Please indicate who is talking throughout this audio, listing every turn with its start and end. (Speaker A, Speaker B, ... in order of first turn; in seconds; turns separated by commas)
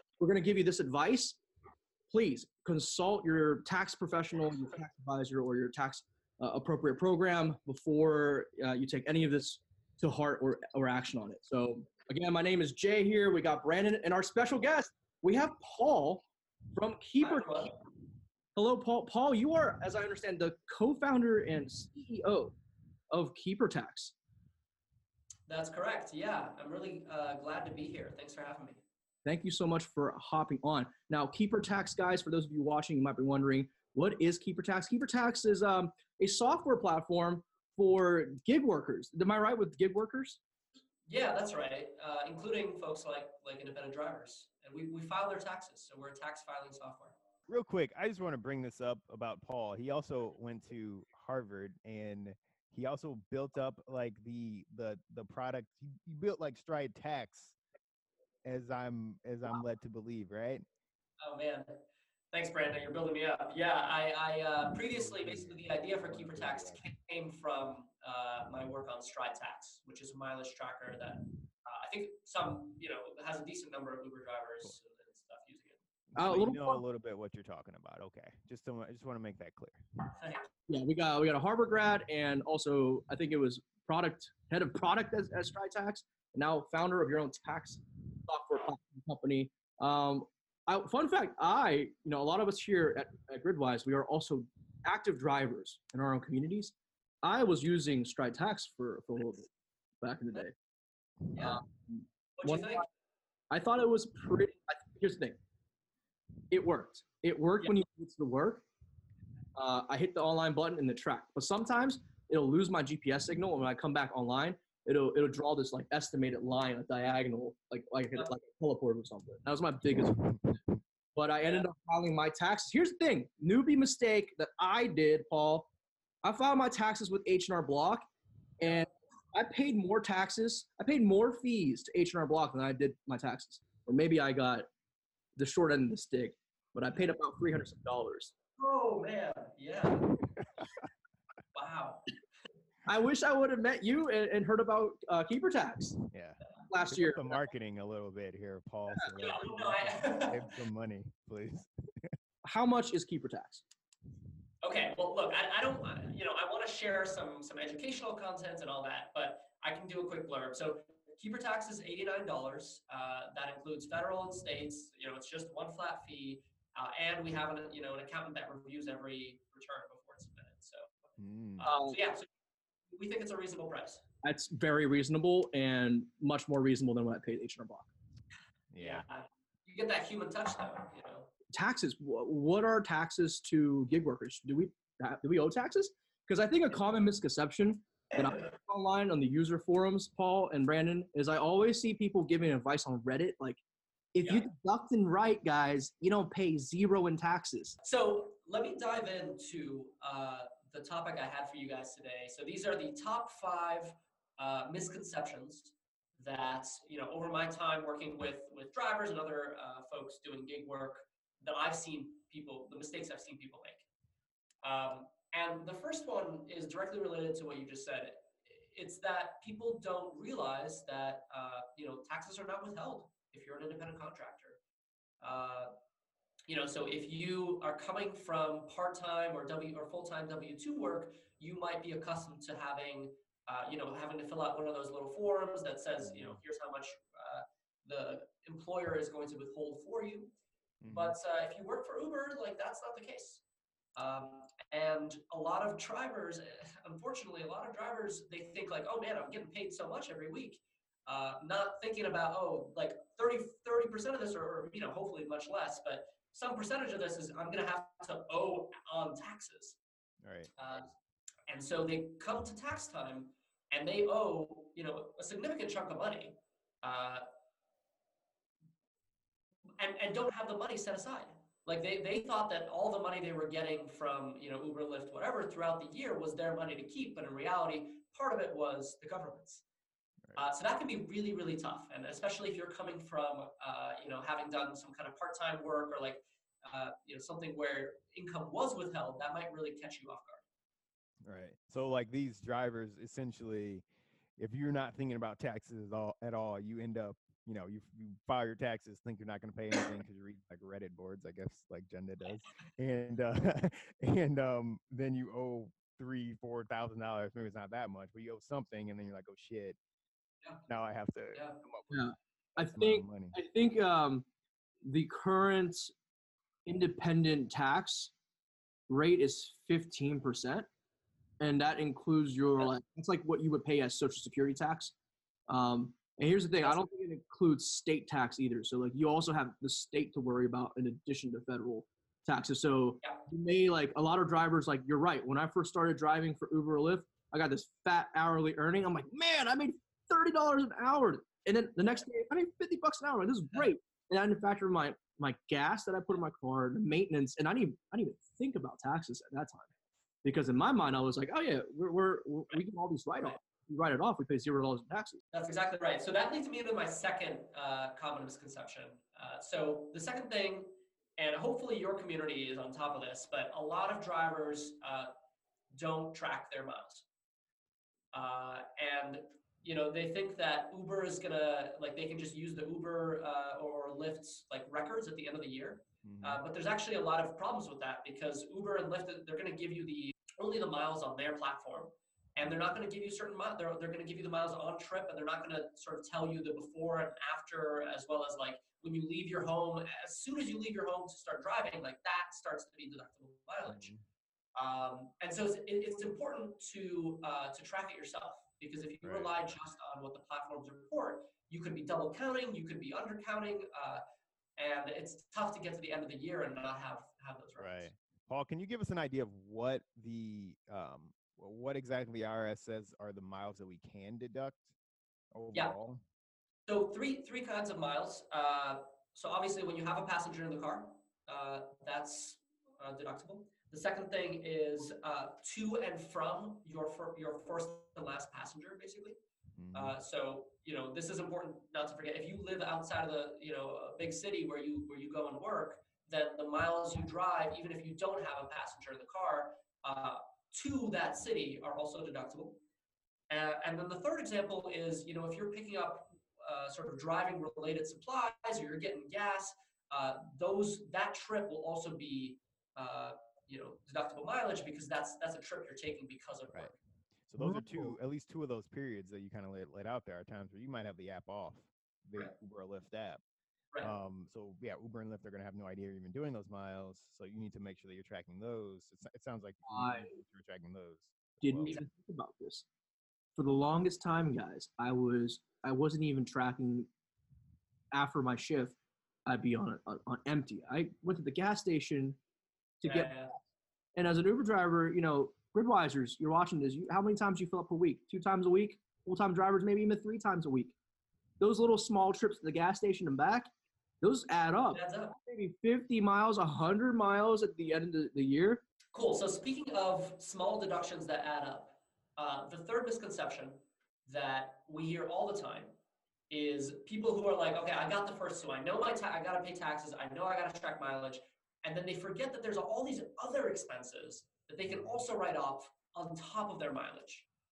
Speaker A: 0.2-1.4, Speaker A: 2.1-17.7, Speaker B: 17.2-17.7, Speaker A: 18.6-22.6, Speaker A: 23.1-24.1, Speaker B: 25.5-28.8, Speaker A: 29.2-40.4, Speaker B: 41.1-47.2, Speaker C: 47.5-57.6, Speaker C: 58.5-60.6, Speaker B: 61.2-61.7, Speaker B: 62.3-75.8, Speaker C: 65.0-66.8, Speaker C: 76.1-79.8, Speaker A: 76.2-76.8, Speaker B: 80.2-80.5, Speaker A: 80.7-100.5, Speaker B: 101.3-101.6, Speaker A: 101.4-102.8, Speaker B: 102.4-102.9, Speaker A: 103.5-105.4, Speaker A: 106.5-108.7, Speaker A: 109.5-120.2, Speaker C: 119.9-120.8, Speaker A: 121.2-125.7, Speaker A: 126.2-128.1, Speaker A: 128.6-134.7, Speaker A: 135.4-138.3, Speaker B: 138.6-140.2, Speaker B: 141.5-142.1, Speaker A: 142.9-146.0, Speaker C: 146.1-152.1, Speaker A: 146.7-147.4, Speaker B: 149.2-150.5, Speaker A: 152.4-153.6, Speaker B: 154.6-170.9, Speaker C: 171.2-171.7, Speaker B: 171.6-172.3, Speaker A: 171.6-172.0, Speaker B: 172.9-174.0, Speaker A: 174.2-177.9, Speaker C: 178.7-179.0, Speaker B: 178.8-181.3, Speaker A: 181.5-193.6, Speaker A: 194.1-197.8, Speaker B: 194.2-194.5, Speaker B: 197.8-213.8, Speaker B: 214.6-224.6, Speaker B: 225.2-225.7, Speaker B: 226.5-240.3, Speaker C: 236.0-236.4, Speaker C: 240.8-241.2, Speaker B: 240.9-243.4, Speaker B: 244.0-259.8, Speaker C: 260.2-260.5, Speaker B: 260.6-260.9, Speaker B: 261.5-267.2, Speaker B: 269.8-279.6, Speaker B: 280.4-290.4, Speaker C: 291.2-293.9, Speaker C: 294.4-309.8, Speaker C: 310.7-312.1, Speaker B: 311.3-311.6, Speaker A: 311.9-314.3, Speaker C: 312.7-313.4, Speaker A: 314.9-315.9, Speaker A: 316.7-318.1, Speaker A: 318.9-320.7, Speaker A: 321.4-324.9, Speaker A: 325.5-349.7, Speaker A: 350.2-355.2, Speaker B: 355.3-365.1, Speaker B: 365.8-367.1, Speaker B: 368.1-393.9, Speaker C: 376.0-376.4, Speaker C: 393.6-394.0, Speaker B: 394.6-404.0, Speaker C: 399.0-399.3, Speaker B: 404.6-407.9, Speaker C: 407.6-414.7, Speaker C: 415.3-416.0, Speaker B: 416.7-429.2, Speaker C: 429.6-430.0, Speaker B: 429.7-442.6, Speaker B: 443.3-456.8, Speaker C: 457.3-463.2, Speaker A: 457.4-458.0, Speaker C: 463.8-471.8, Speaker A: 469.7-470.1, Speaker A: 471.4-472.7, Speaker A: 473.4-476.9, Speaker A: 477.9-482.2, Speaker A: 482.8-483.2, Speaker B: 482.8-483.3, Speaker A: 484.0-490.8, Speaker A: 491.4-493.5, Speaker A: 494.0-498.6, Speaker B: 494.7-495.1, Speaker B: 498.9-505.7, Speaker B: 506.3-517.3, Speaker C: 514.7-515.0